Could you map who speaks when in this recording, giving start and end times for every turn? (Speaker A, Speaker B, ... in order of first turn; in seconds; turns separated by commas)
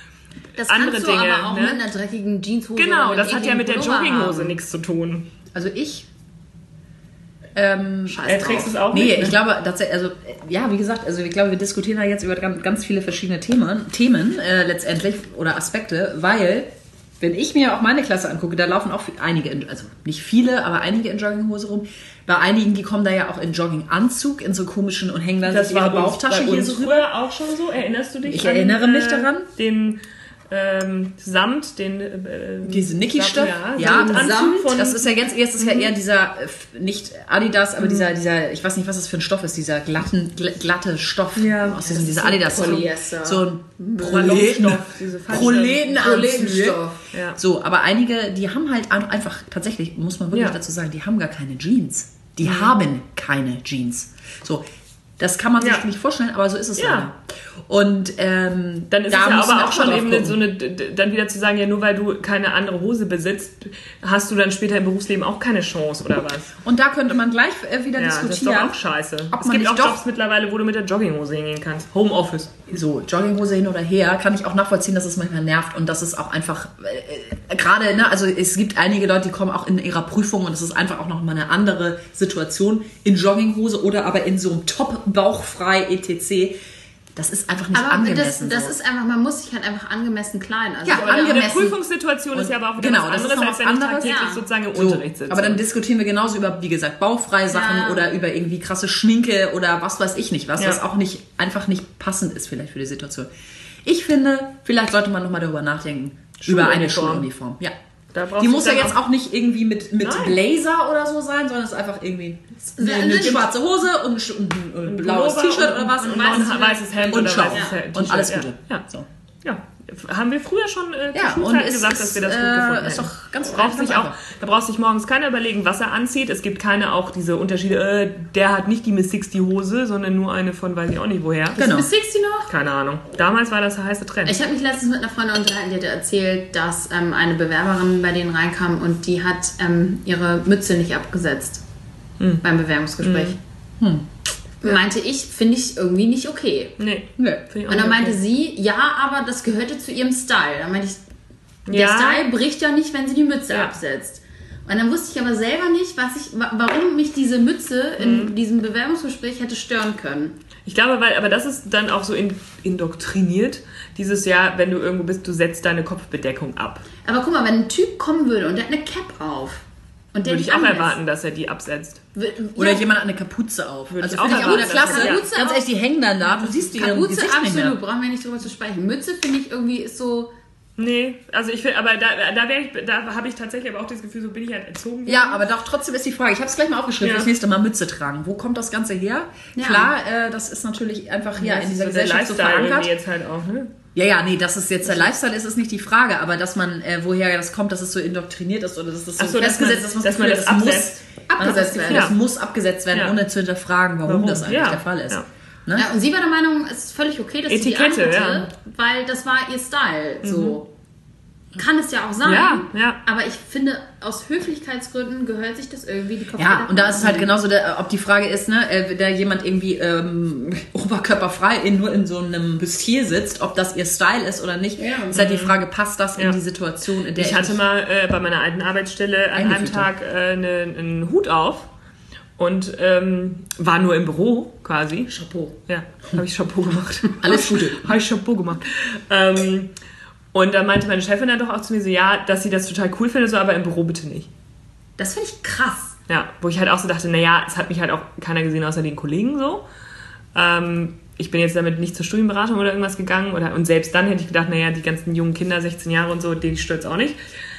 Speaker A: 0.6-4.6, Speaker B: 0.6-1.8, Speaker B: 2.8-5.3, Speaker C: 5.6-6.0, Speaker A: 5.6-6.0, Speaker C: 7.5-27.1, Speaker A: 8.1-9.2, Speaker B: 8.2-9.3, Speaker B: 25.4-35.1, Speaker C: 28.3-29.5, Speaker C: 32.6-46.8, Speaker A: 33.8-34.7, Speaker B: 35.6-35.9, Speaker B: 37.8-38.1, Speaker B: 41.4-41.9, Speaker A: 41.8-44.5, Speaker B: 44.0-46.1, Speaker A: 45.7-47.0, Speaker B: 47.1-47.4, Speaker C: 47.4-54.6, Speaker B: 50.3-50.6, Speaker B: 52.4-52.7, Speaker C: 55.2-60.4, Speaker B: 55.6-55.9, Speaker B: 56.8-57.1, Speaker B: 58.9-66.5, Speaker C: 66.6-68.8, Speaker B: 68.0-72.5, Speaker C: 69.3-70.0, Speaker C: 72.7-86.5, Speaker C: 87.1-88.7, Speaker A: 87.7-91.5, Speaker C: 90.8-91.8, Speaker B: 90.9-95.6, Speaker C: 92.3-103.3, Speaker A: 94.0-94.4, Speaker A: 97.5-98.1, Speaker C: 103.8-107.7, Speaker B: 106.4-107.3, Speaker B: 108.1-109.0, Speaker C: 108.4-119.1, Speaker B: 110.0-110.4, Speaker A: 112.7-113.5, Speaker B: 113.1-113.4, Speaker B: 114.8-118.8, Speaker A: 116.0-117.8, Speaker B: 119.4-131.6, Speaker C: 121.1-124.2, Speaker A: 131.6-132.5, Speaker C: 131.6-131.9, Speaker B: 132.5-134.3, Speaker A: 134.2-141.6, Speaker B: 142.2-142.4, Speaker A: 142.4-143.4, Speaker B: 143.0-143.3, Speaker C: 143.8-144.1, Speaker A: 144.6-146.8, Speaker B: 146.8-148.2, Speaker C: 147.2-147.4, Speaker A: 147.7-151.0, Speaker B: 151.7-152.2, Speaker A: 151.7-160.3, Speaker B: 158.0-158.3, Speaker B: 160.7-166.8, Speaker A: 167.0-170.9, Speaker B: 170.2-172.0, Speaker A: 172.1-172.9, Speaker C: 172.6-177.8, Speaker B: 173.9-175.2, Speaker A: 174.2-175.6, Speaker A: 176.4-180.3, Speaker B: 180.8-185.4, Speaker C: 185.1-192.9, Speaker B: 187.0-187.3, Speaker A: 189.5-189.9, Speaker B: 191.4-193.7, Speaker C: 193.9-205.9, Speaker B: 199.2-201.0, Speaker A: 201.3-202.1, Speaker B: 201.9-202.1, Speaker B: 202.9-203.2, Speaker B: 204.1-205.2, Speaker A: 205.7-210.7, Speaker B: 207.5-208.5, Speaker B: 210.2-210.6, Speaker A: 211.6-217.3, Speaker B: 212.2-213.0, Speaker C: 216.4-227.6, Speaker A: 224.8-225.2, Speaker B: 225.1-225.6, Speaker B: 227.2-231.7, Speaker C: 229.3-229.9, Speaker B: 232.4-235.1, Speaker A: 235.1-235.5, Speaker B: 235.7-239.7, Speaker C: 237.2-237.9, Speaker B: 240.3-244.3, Speaker A: 245.0-245.9, Speaker B: 246.1-249.6, Speaker B: 250.3-257.2